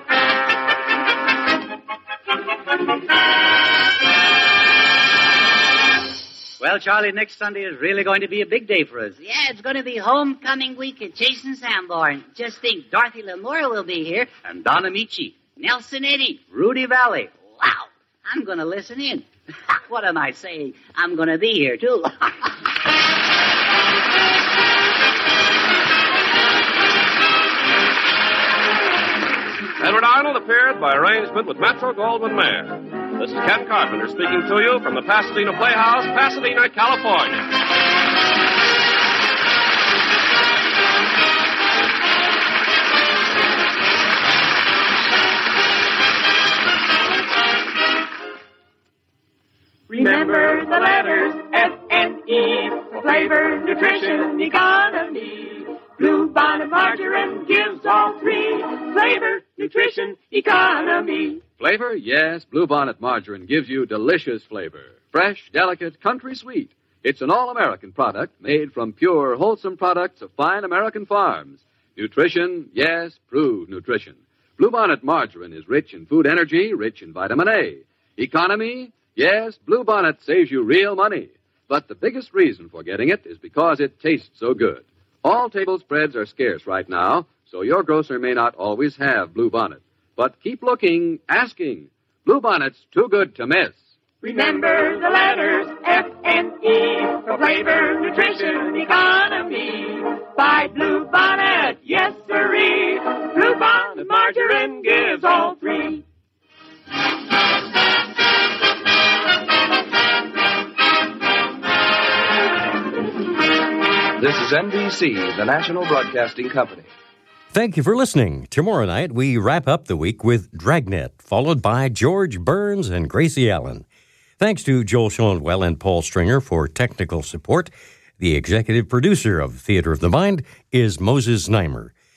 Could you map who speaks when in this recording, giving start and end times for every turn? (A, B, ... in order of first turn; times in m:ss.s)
0:06.6-0:09.2 A
0:09.2-0:14.3 B
0:14.4-0:15.5 A
0:15.6-0:16.4 B
0:16.4-0:17.4 A
0:17.5-0:22.3 B
0:29.8-0:37.5 C
0:49.9-1:01.4 D
1:01.6-1:33.8 E
1:34.2-1:46.0 D
1:54.2-1:56.9 F
1:57.5-2:03.9 G
2:04.4-2:11.9 G